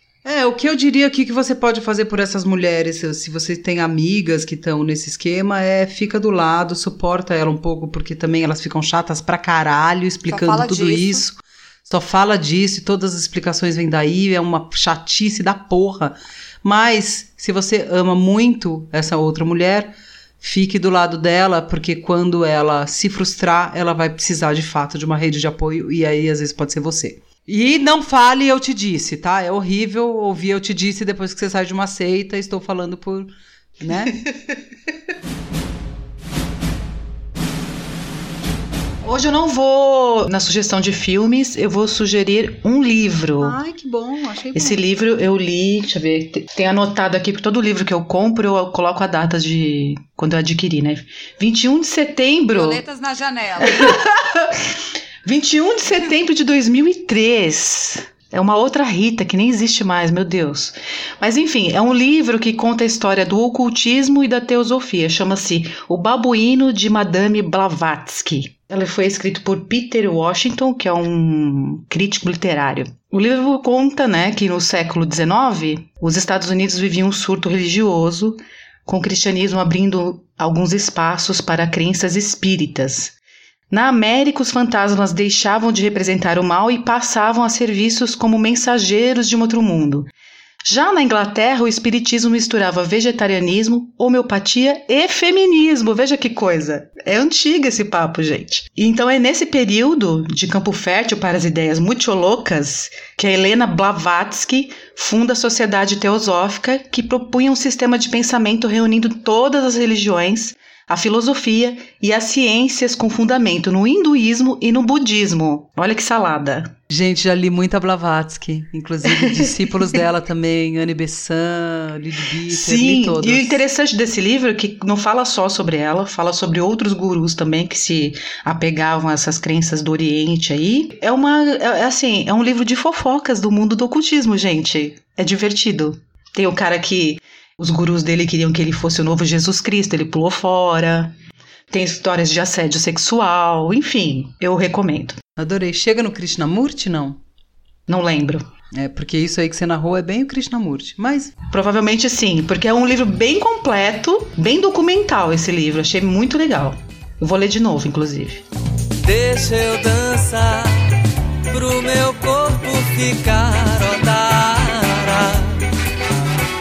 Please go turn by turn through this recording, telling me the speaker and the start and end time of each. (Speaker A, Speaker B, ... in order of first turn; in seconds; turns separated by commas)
Speaker A: 0.2-34.2, Speaker B: 10.3-11.2, Speaker C: 34.1-34.4, Speaker C: 39.0-43.6, Speaker A: 43.4-44.8, Speaker C: 44.5-52.8, Speaker B: 52.5-54.0, Speaker C: 53.6-54.6, Speaker C: 55.2-83.2, Speaker C: 83.7-90.1, Speaker C: 90.7-116.8, Speaker A: 116.9-123.6, Speaker C: 119.2-119.5, Speaker C: 122.5-141.2, Speaker C: 141.7-145.2, Speaker A: 145.4-147.2, Speaker C: 147.9-148.4, Speaker A: 148.7-151.3, Speaker C: 151.5-158.4, Speaker D: 159.0-161.0, Speaker D: 161.5-165.6